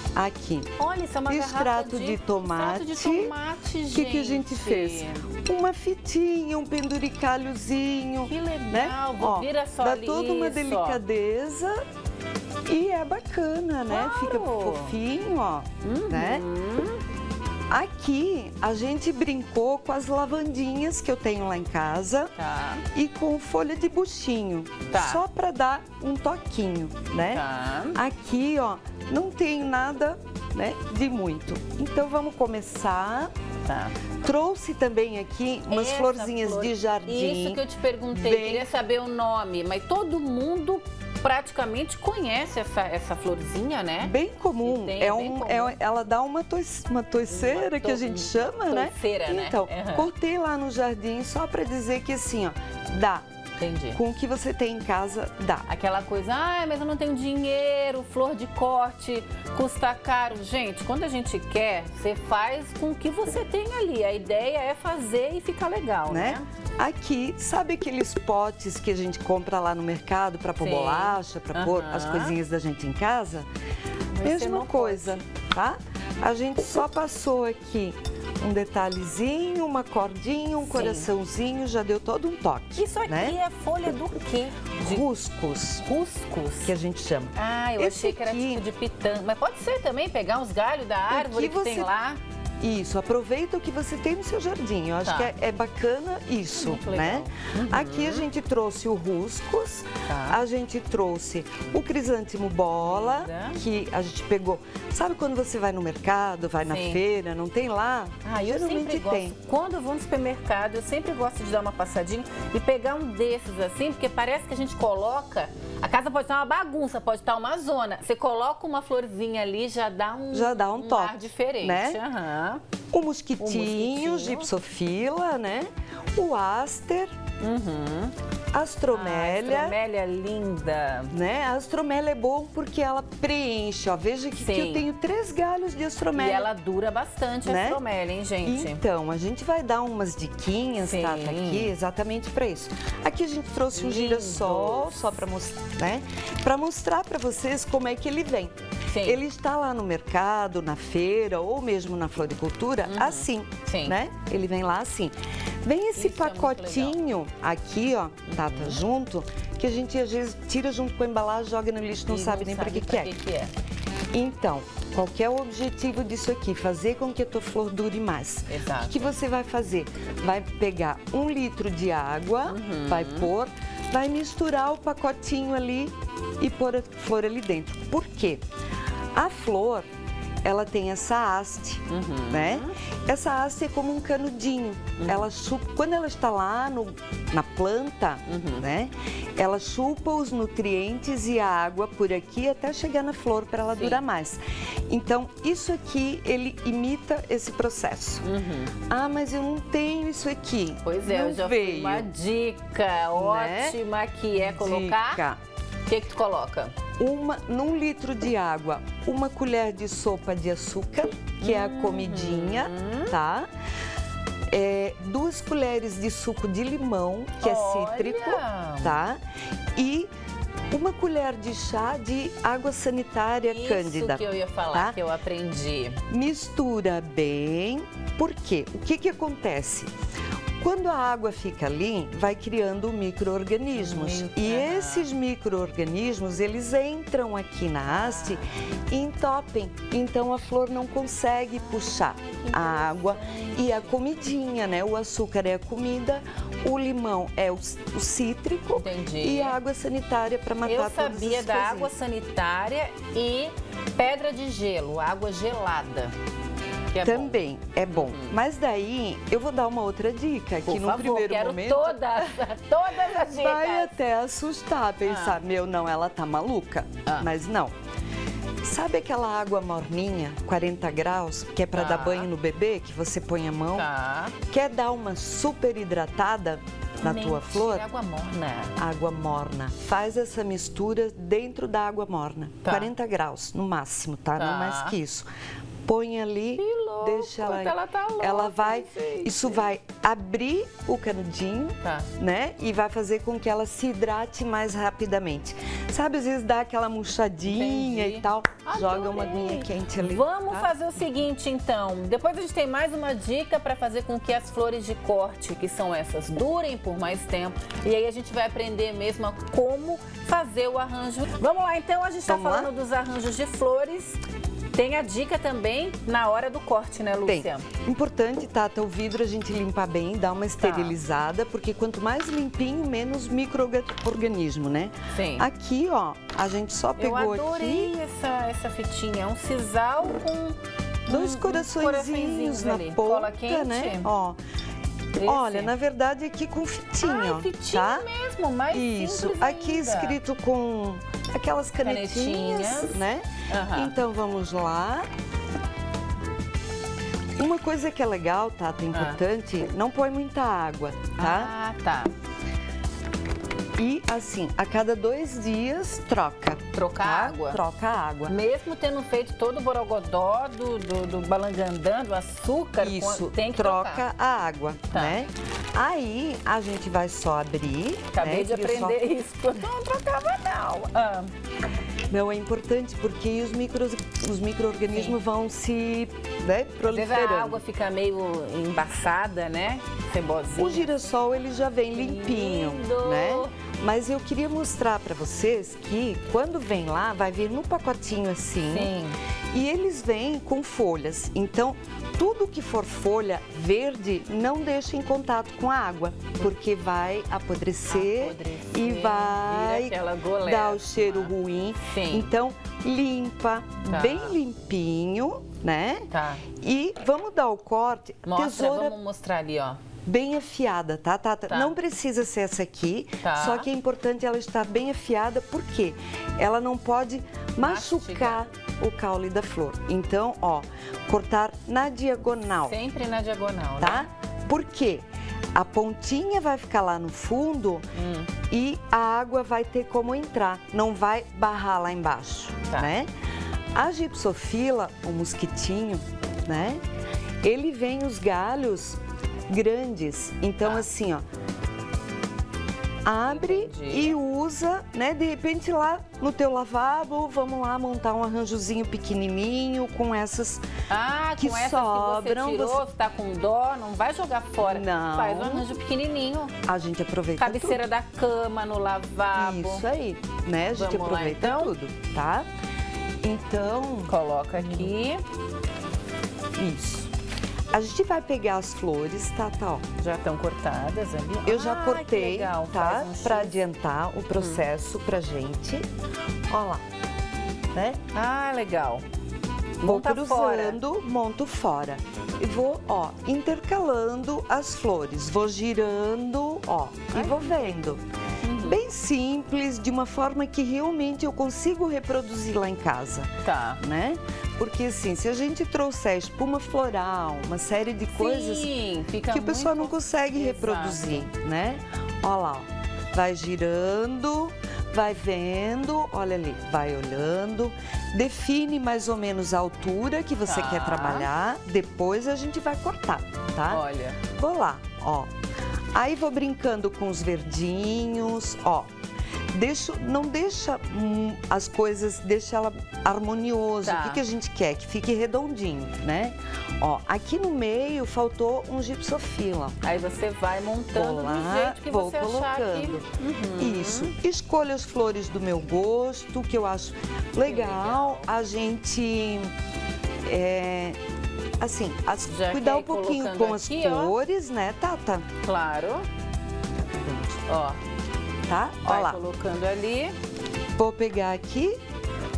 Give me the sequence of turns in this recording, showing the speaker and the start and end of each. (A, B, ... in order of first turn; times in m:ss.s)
0:00.2-0:00.7 A
0:00.8-0:05.3 B
0:01.3-0:03.3 A
0:03.9-0:11.8 A
0:08.2-0:11.0 B
0:12.7-0:16.4 A
0:13.9-0:15.0 B
0:15.8-0:17.0 B
0:17.7-0:22.3 A
0:22.4-0:22.8 B
0:22.9-0:33.3 A
0:24.9-0:25.2 B
0:27.3-0:28.0 B
0:33.7-0:34.0 B
0:34.2-0:38.7 A
0:35.7-0:45.8 B
0:44.0-0:53.2 A
0:47.3-0:50.1 B
0:53.6-0:54.0 B
0:53.9-0:55.7 A
0:55.7-1:06.5 B
1:06.1-1:13.5 A
1:10.6-1:12.4 B
1:14.1-1:15.2 B
1:14.2-1:23.4 A
1:20.6-1:21.1 B
1:22.7-1:25.1 B
1:24.8-1:25.8 A
1:25.8-1:26.7 B
1:26.7-1:28.6 A
1:27.4-1:32.2 B
1:31.1-1:31.9 A
1:32.6-1:49.4 A
1:35.0-1:35.3 B
1:36.6-1:38.3 B
1:40.1-1:40.4 B
1:42.8-1:43.6 B
1:46.6-1:47.0 B
1:48.2-2:02.6 B
2:00.3-2:02.0 A
2:02.9-2:07.1 A
2:03.4-2:04.5 B
2:07.4-2:08.2 B
2:08.5-2:09.8 A
2:08.9-2:11.1 B
2:11.1-2:16.5 A
2:14.4-2:14.9 B
2:16.1-2:18.8 B
2:17.4-2:17.8 A
2:18.4-2:43.2 A
2:20.8-2:21.7 B
2:23.7-2:25.2 B
2:28.9-2:29.2 B
2:32.9-2:34.0 B
2:36.0-2:37.0 B
2:38.3-2:38.8 B
2:42.1-2:43.5 B
2:44.1-2:58.4 A
2:48.5-2:49.1 B
2:52.5-2:53.3 B
2:59.2-2:59.9 A
3:00.4-3:18.2 A
3:01.9-3:02.7 B
3:05.0-3:05.3 B
3:08.3-3:08.7 B
3:13.7-3:14.0 B
3:18.2-3:18.7 B
3:18.9-3:22.1 A
3:20.8-3:25.2 B
3:23.1-3:23.8 A
3:24.4-3:25.4 A
3:25.9-3:26.7 B
3:27.0-3:33.5 A
3:31.4-3:33.2 B
3:34.5-3:39.2 A
3:37.4-3:39.0 B
3:39.8-3:40.1 A
3:40.7-3:45.0 A
3:43.4-3:46.0 B
3:46.1-3:49.9 A
3:50.6-4:11.9 A
3:53.8-3:55.1 B
3:57.9-3:58.5 B
4:01.6-4:04.0 B
4:08.7-4:09.6 B
4:10.6-4:16.2 B
4:16.9-4:18.4 B
4:17.0-4:27.7 A
4:20.6-4:23.9 B
4:25.0-4:25.4 B
4:28.6-4:33.9 A
4:31.7-4:32.3 B
4:33.7-4:34.4 B
4:34.5-4:37.8 A
4:37.0-4:38.8 B
4:38.8-4:45.3 A
4:42.6-4:42.9 B
4:44.4-4:45.0 B
4:45.8-5:00.7 A
4:46.6-4:49.7 B
4:51.8-4:52.1 B
4:57.5-5:14.2 B
5:12.3-5:12.7 A
5:14.7-5:17.7 B
5:17.3-5:27.9 A
5:20.6-5:21.0 B
5:25.1-5:25.5 B
5:27.0-5:34.1 B
5:31.1-5:34.4 A
5:35.2-5:35.7 B
5:35.2-5:38.1 A
5:37.0-5:40.2 B
5:38.7-5:45.0 A
5:41.8-5:44.0 B
5:47.4-5:51.5 A
5:48.9-5:49.2 B
5:51.2-5:52.1 B
5:53.8-5:58.4 A
5:56.7-5:57.6 B
5:58.3-6:04.0 B
6:02.8-6:09.0 A
6:04.9-6:05.2 B
6:08.1-6:11.3 B
6:12.1-6:17.6 A
6:14.9-6:15.2 B
6:16.9-6:21.1 B
6:20.6-6:28.9 A
6:21.9-6:23.5 B
6:28.6-6:29.2 B
6:29.5-6:49.0 A
6:37.9-6:42.3 B
6:43.8-6:44.4 B
6:46.1-6:46.5 B
6:48.3-6:49.8 B
6:50.0-7:02.8 A
6:51.5-6:51.8 B
6:53.2-6:53.7 B
6:57.6-6:58.4 B
7:02.6-7:04.1 B
7:03.8-7:07.9 A
7:08.0-7:08.3 B
7:08.5-7:13.1 A
7:12.7-7:13.0 B
7:13.7-7:16.8 A
7:17.4-7:19.0 A
7:19.5-7:21.2 A
7:23.0-7:30.6 A
7:23.2-7:24.2 B
7:30.9-7:36.5 B
7:31.4-7:32.8 A
7:34.6-7:35.7 A
7:36.6-7:37.8 A
7:37.4-7:39.9 B
7:39.3-7:42.5 A
7:40.7-7:41.7 B
7:43.2-7:44.9 A
7:44.1-7:45.2 B
7:46.6-7:47.1 A
7:47.7-7:49.8 A
7:50.0-7:53.6 B
7:51.4-7:55.9 A
7:54.4-7:54.6 B
7:56.5-7:56.8 A
7:57.7-7:58.0 A
7:58.1-7:59.0 B
7:59.8-8:00.8 B
7:59.8-8:08.0 A
8:07.1-8:08.8 B
8:08.6-8:18.7 A
8:13.4-8:13.8 B
8:18.1-8:21.3 B
8:19.3-8:35.3 A
8:30.4-8:31.3 B
8:33.7-8:34.2 B
8:35.9-8:38.9 A
8:39.5-8:49.8 A
8:43.8-8:44.2 B
8:49.8-8:54.1 B
8:50.9-8:53.1 A
8:53.6-8:59.5 A
8:57.4-8:58.3 B
9:00.3-9:01.0 A
9:01.6-9:05.3 A
9:02.3-9:04.1 B
9:05.4-9:06.1 B
9:07.4-9:07.8 B
9:08.5-9:09.2 A
9:08.9-9:10.2 B
9:10.8-9:11.8 A